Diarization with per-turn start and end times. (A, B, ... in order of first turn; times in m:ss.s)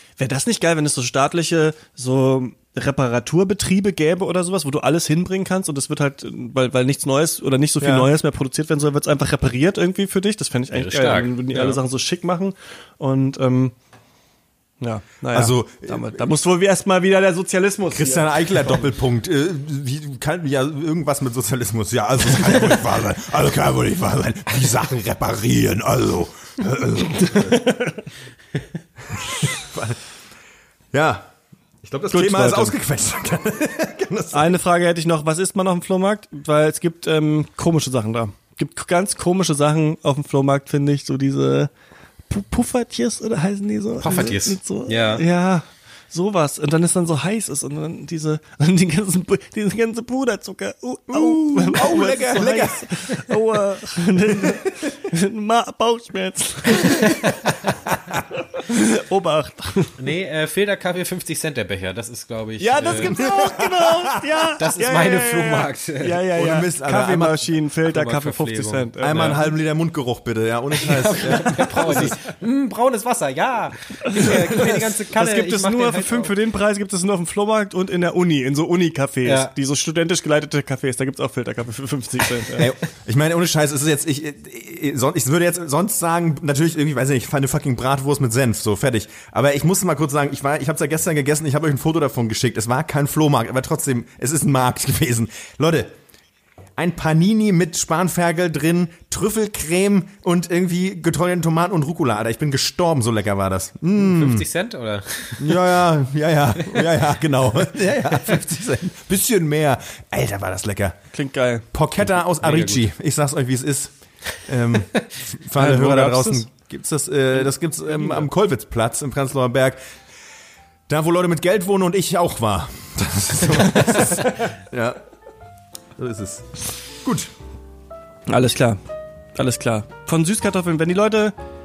0:00.2-0:13.8 A
0:07.8-0:08.1 B
0:10.7-0:11.8 C
0:14.8-0:18.8 A
0:15.3-0:16.3 B
0:17.9-0:27.7 B
0:27.3-0:27.9 A
0:29.1-0:30.0 B
0:30.9-0:31.3 B
0:31.8-0:34.6 B
0:32.1-0:32.8 A
0:34.3-0:41.7 A
0:42.3-0:57.2 A
0:44.0-0:45.2 C
0:51.1-0:52.9 B
0:54.3-0:54.9 B
0:56.8-0:57.5 C
0:58.5-1:00.0 A
1:00.0-1:03.3 C
1:02.6-1:09.4 A
1:02.9-1:04.2 B
1:04.5-1:06.2 C
1:06.4-1:07.4 B
1:07.8-1:09.4 C
1:09.0-1:12.2 B
1:10.8-1:16.3 C
1:10.9-1:12.0 A
1:14.0-1:22.7 A
1:14.2-1:14.6 B
1:19.2-1:19.5 C
1:22.5-1:35.9 B
1:36.8-1:44.4 B
1:44.0-1:45.7 C
1:45.4-1:51.0 B
1:46.6-1:47.0 C
1:51.1-1:51.6 A
1:51.7-1:59.8 B
1:52.4-1:52.8 C
1:55.6-1:56.5 A
1:57.9-1:58.2 A
2:00.9-2:05.0 B
2:06.0-2:07.3 B
2:08.3-2:08.8 A
2:09.3-2:11.3 A